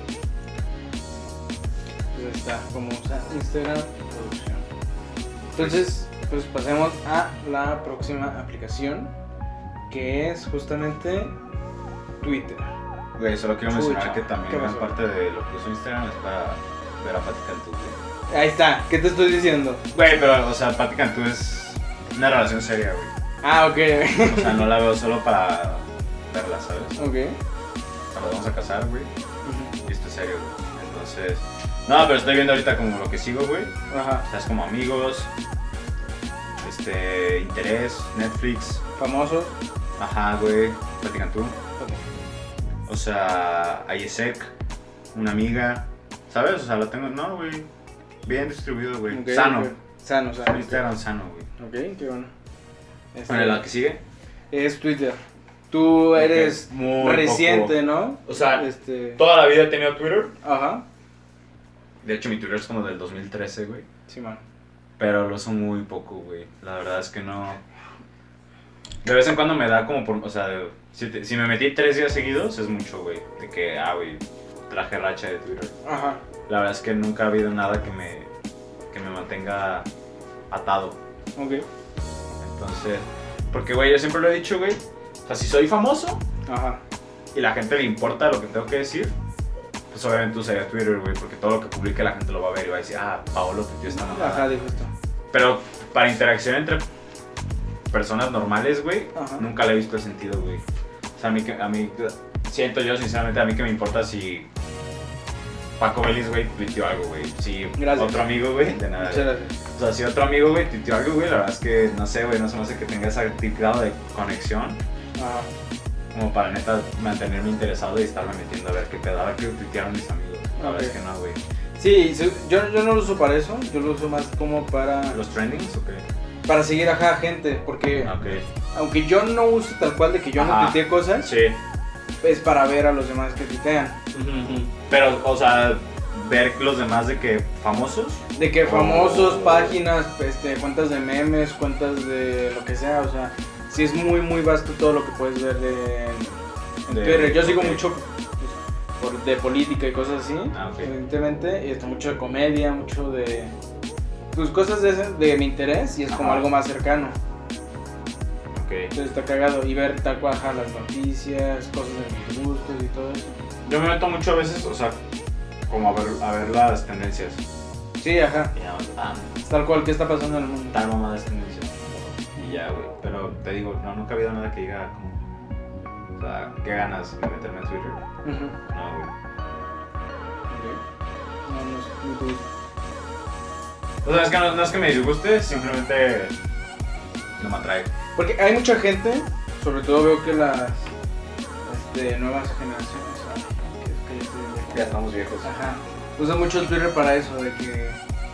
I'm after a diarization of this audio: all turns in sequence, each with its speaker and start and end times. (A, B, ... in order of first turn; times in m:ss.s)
0:02.1-0:04.6 A
0:05.6-0:09.1 A
0:05.6-0:05.8 B
0:09.9-0:11.3 A
0:12.2-0:12.7 A
0:13.2-0:18.0 B
0:13.7-0:14.9 A
0:18.3-0:19.8 A
0:19.9-0:23.1 B
0:23.4-0:24.8 A
0:24.2-0:27.0 B
0:27.0-0:27.4 A
0:28.1-0:29.1 B
0:29.5-0:29.7 A
0:29.8-0:33.7 B
0:33.9-0:34.3 A
0:34.3-0:35.3 B
0:36.6-0:38.8 B
0:39.0-0:39.6 A
0:40.0-0:41.6 B
0:42.9-0:44.5 B
0:45.1-0:47.7 B
0:48.2-0:49.7 B
0:49.1-0:50.8 A
0:50.4-0:51.5 B
0:51.6-0:52.3 A
0:53.1-0:53.6 A
0:53.3-0:54.0 B
0:54.5-0:55.2 A
0:55.7-0:59.2 A
0:56.2-0:58.6 B
0:59.2-1:00.4 B
1:00.4-1:00.8 A
1:02.0-1:03.8 B
1:04.1-1:04.4 A
1:05.0-1:07.6 B
1:09.0-1:15.7 B
1:15.8-1:16.2 A
1:16.5-1:18.3 B
1:18.9-1:19.9 B
1:20.5-1:21.0 B
1:21.4-1:21.6 A
1:22.4-1:26.2 B
1:26.5-1:26.8 A
1:27.3-1:29.1 B
1:29.9-1:34.5 B
1:33.9-1:34.9 A
1:35.3-1:36.8 B
1:37.9-1:40.6 B
1:39.2-1:39.5 A
1:41.2-1:44.5 B
1:45.8-1:54.8 B
1:47.8-1:48.3 A
1:48.9-1:49.6 A
1:55.2-1:55.5 A
1:56.1-2:01.4 B
2:00.6-2:01.0 A
2:01.8-2:05.2 A
2:05.1-2:06.0 B
2:06.5-2:08.1 A
2:08.0-2:08.4 B
2:08.7-2:11.3 A
2:10.4-2:11.6 B
2:12.2-2:14.0 A
2:14.1-2:19.8 B
2:18.4-2:33.5 A
2:26.9-2:27.8 B
2:30.5-2:30.9 B
2:34.3-2:37.2 A
2:36.1-2:36.5 B
2:38.5-2:38.9 B
2:38.9-2:43.4 A
2:43.6-2:45.0 B
2:45.7-2:47.4 B
2:48.0-2:48.5 A
2:48.5-2:49.4 B
2:49.4-2:50.8 A
2:50.7-2:55.2 B
2:56.2-2:58.0 B
2:58.2-2:58.6 A
2:58.7-2:59.1 B
3:00.5-3:00.8 A
3:01.5-3:02.4 A
3:04.0-3:06.3 B
3:07.4-3:07.9 B
3:08.2-3:10.9 A
3:11.7-3:14.9 A
3:14.7-3:15.5 B
3:15.4-3:18.0 A